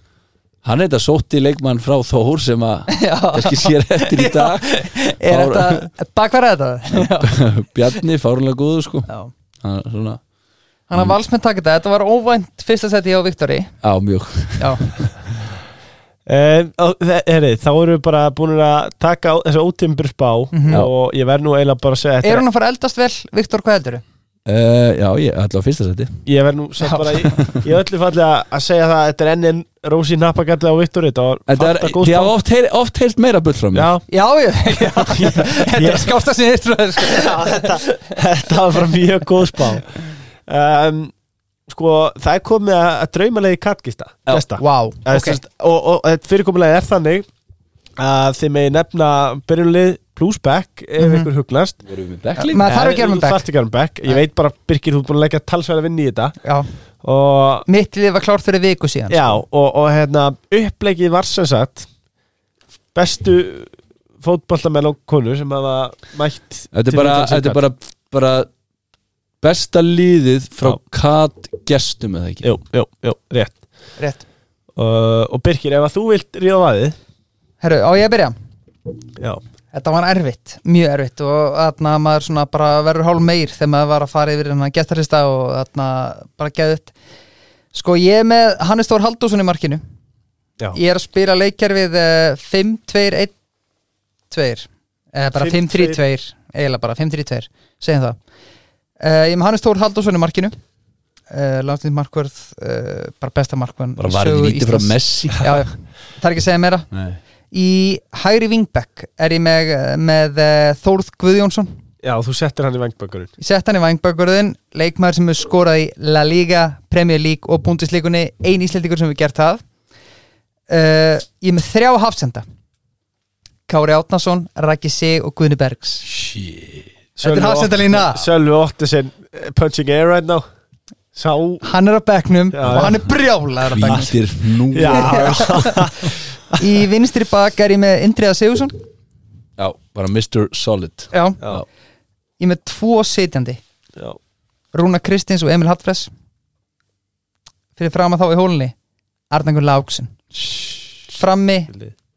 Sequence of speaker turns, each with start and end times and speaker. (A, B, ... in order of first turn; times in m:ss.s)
0:00.6-0:05.9 A
0:02.9-0:08.0 B
0:06.9-0:09.1 A
0:09.6-0:10.2 A
0:10.9-0:13.7 B
0:13.8-0:15.1 A
0:14.6-0:14.9 B
0:16.2-0:22.4 C
0:20.5-0:20.8 B
0:22.2-0:24.0 B
0:24.4-0:26.1 A
0:26.2-0:32.3 C
0:31.5-0:33.9 A
0:33.7-0:34.0 C
0:34.1-0:37.8 B
0:34.8-0:36.1 C
0:37.0-0:39.9 C
0:40.5-0:41.1 C
0:41.7-0:47.2 C
0:44.6-0:45.4 B
0:48.0-0:51.8 C
0:51.0-0:51.3 B
0:51.8-0:52.6 A
0:52.4-0:53.4 B
0:52.6-0:56.4 C
0:57.0-0:57.7 C
0:57.7-0:59.4 B
0:59.1-1:01.9 C
1:02.9-1:07.6 C
1:06.7-1:08.5 A
1:09.4-1:12.5 A
1:12.4-1:13.6 C
1:14.0-1:14.2 B
1:14.8-1:17.0 C
1:17.6-1:18.4 B
1:19.7-1:26.9 B
1:27.7-1:29.8 B
1:30.7-1:33.3 B
1:34.3-1:38.2 B
1:35.3-1:36.0 C
1:39.0-1:40.6 B
1:41.3-1:46.9 B
1:44.0-1:45.6 A
1:46.9-1:47.2 A
1:47.5-1:51.8 B
1:52.0-1:53.3 C
1:53.4-1:59.6 B
2:00.7-2:02.4 B
2:03.7-2:06.0 B
2:06.0-2:06.9 A
2:07.2-2:10.4 C
2:07.2-2:08.2 B
2:11.1-2:11.6 C
2:11.6-2:14.1 B
2:12.5-2:13.0 C
2:12.7-2:13.0 A
2:13.7-2:15.8 A
2:13.8-2:14.1 C
2:14.7-2:16.6 C
2:14.9-2:15.9 B
2:16.6-2:18.8 B
2:19.6-2:21.6 A
2:21.1-2:21.4 B
2:22.4-2:23.6 B
2:24.7-2:26.1 B
2:27.8-2:28.7 B
2:29.3-2:30.2 B
2:31.1-2:31.7 B